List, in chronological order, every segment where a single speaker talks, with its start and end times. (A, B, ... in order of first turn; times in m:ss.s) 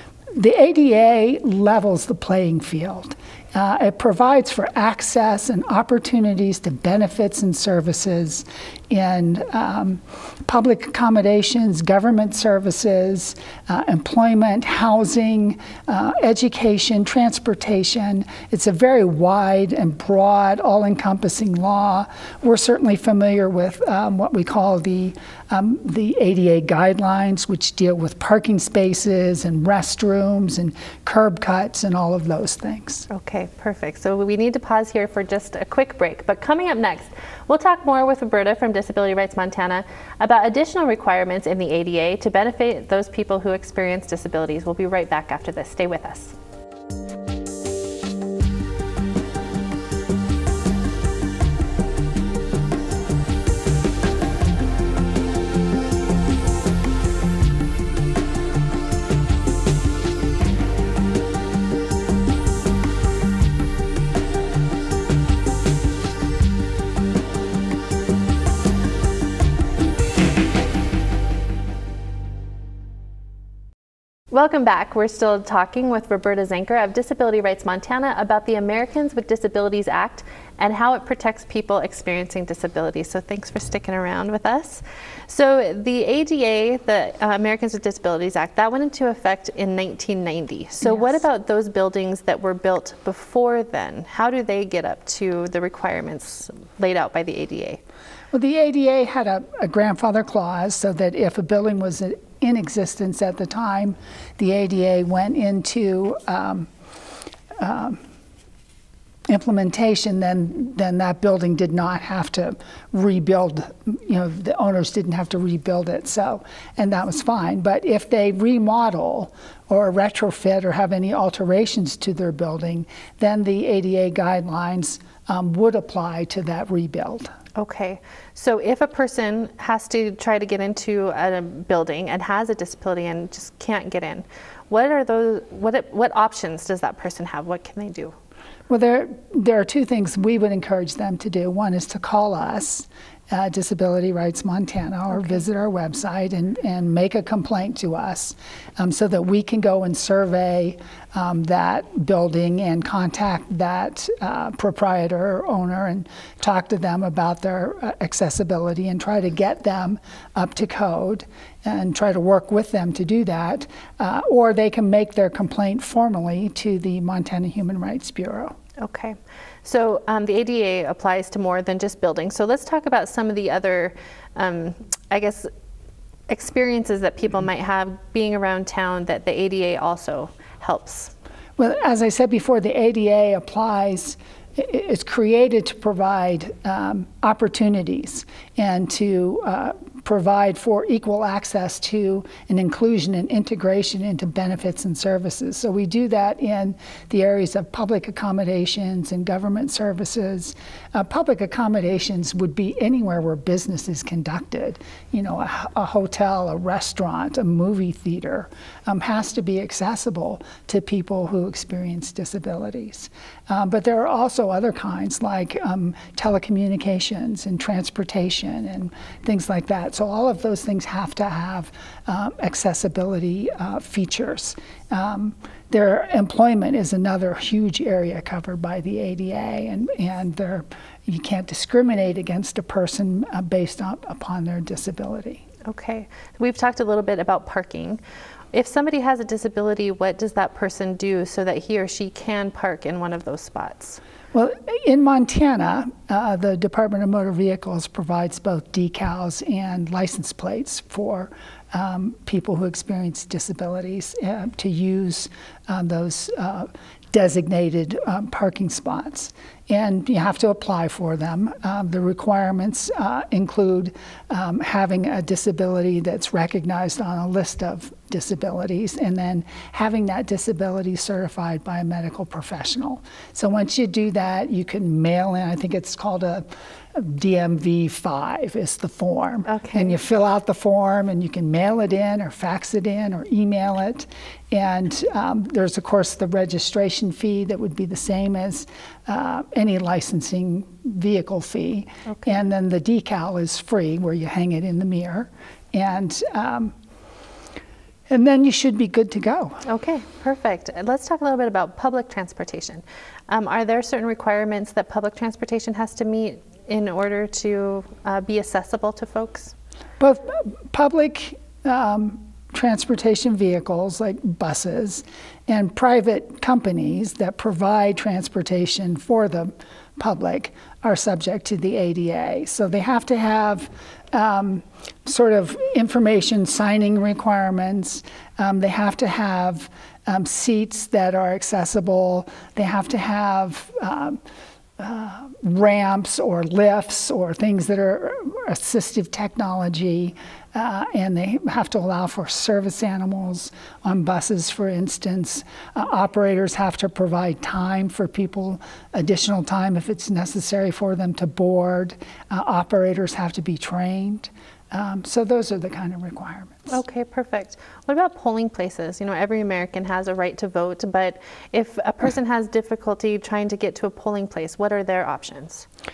0:00.3-0:33.1 A
0:33.1-0:46.4 B
1:14.3-1:37.8 B
1:30.8-1:31.2 A
1:38.3-1:46.7 A
1:47.6-1:48.0 A
1:49.3-2:07.3 A
2:07.6-2:18.1 B
2:18.7-2:48.6 A
2:48.8-2:55.5 B
2:56.3-3:01.1 B
3:01.6-3:55.4 A
3:55.7-3:58.0 B
3:58.5-4:04.0 B
4:04.3-4:56.7 A
4:39.5-4:39.9 B
4:58.1-4:59.6 A
4:59.6-5:09.5 B
5:10.0-5:34.2 A
5:34.8-5:56.7 A
5:56.7-6:05.7 B